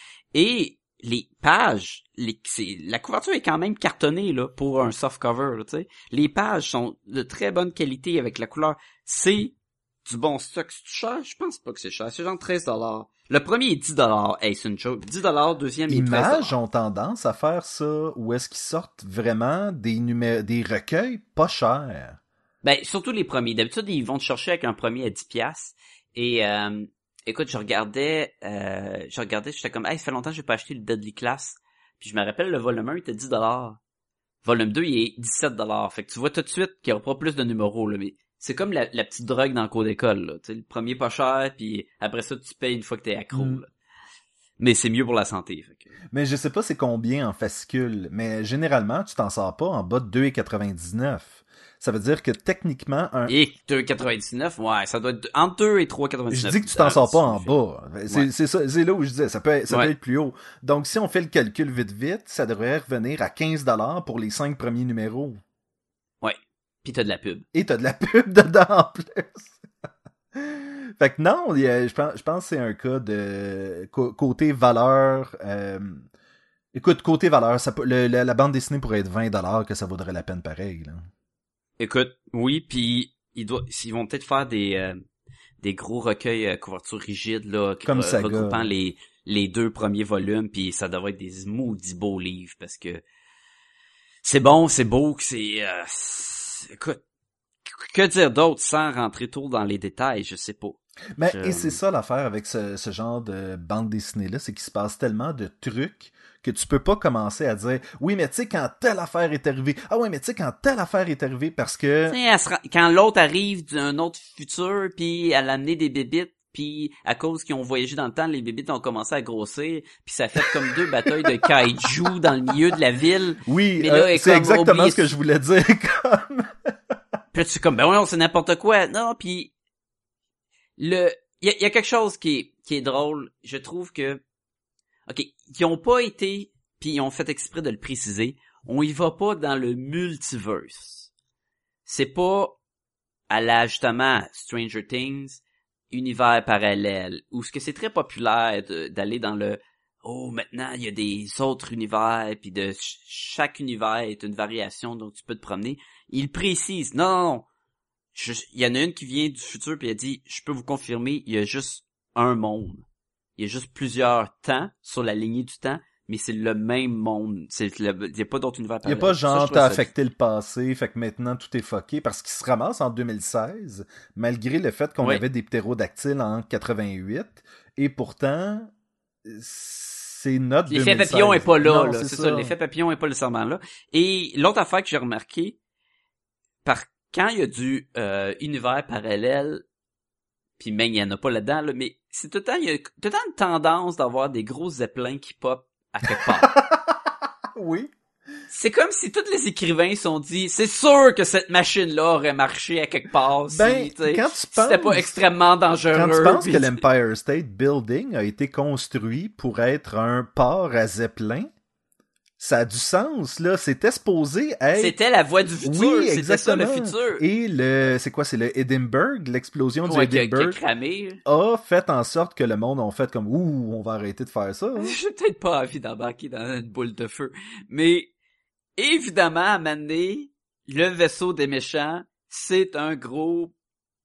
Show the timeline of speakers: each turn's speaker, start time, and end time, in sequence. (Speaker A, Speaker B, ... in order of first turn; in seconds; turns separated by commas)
Speaker A: 0.3-9.5, Speaker A: 10.1-16.6, Speaker B: 15.9-22.2, Speaker A: 22.6-33.8, Speaker A: 34.4-43.7, Speaker B: 43.3-43.6, Speaker A: 44.6-45.9, Speaker B: 46.1-53.4, Speaker A: 53.3-57.5, Speaker B: 56.3-65.4, Speaker A: 66.2-67.5, Speaker B: 67.5-69.5, Speaker B: 70.3-76.1, Speaker B: 76.7-81.1, Speaker A: 81.8-85.0, Speaker A: 85.6-93.0, Speaker B: 87.9-88.7, Speaker A: 94.2-97.0, Speaker A: 97.7-100.8, Speaker B: 101.2-112.2, Speaker A: 101.3-101.8, Speaker A: 112.1-125.1, Speaker B: 123.5-126.7, Speaker A: 127.3-129.5, Speaker A: 130.8-134.2, Speaker A: 135.1-141.1, Speaker A: 141.9-142.6, Speaker A: 143.3-145.4, Speaker A: 145.9-157.5, Speaker A: 158.1-162.8, Speaker A: 163.4-169.9, Speaker B: 168.8-178.7, Speaker B: 179.2-182.5, Speaker A: 180.7-185.6, Speaker A: 186.7-189.6, Speaker A: 190.6-196.5, Speaker B: 196.4-197.0, Speaker B: 197.6-197.9, Speaker A: 198.5-206.8, Speaker B: 203.5-205.2, Speaker B: 205.9-211.5, Speaker B: 212.4-215.0, Speaker A: 214.8-217.2, Speaker B: 215.6-220.6, Speaker A: 219.8-221.2, Speaker B: 221.2-225.0, Speaker A: 224.8-228.1, Speaker A: 228.8-233.5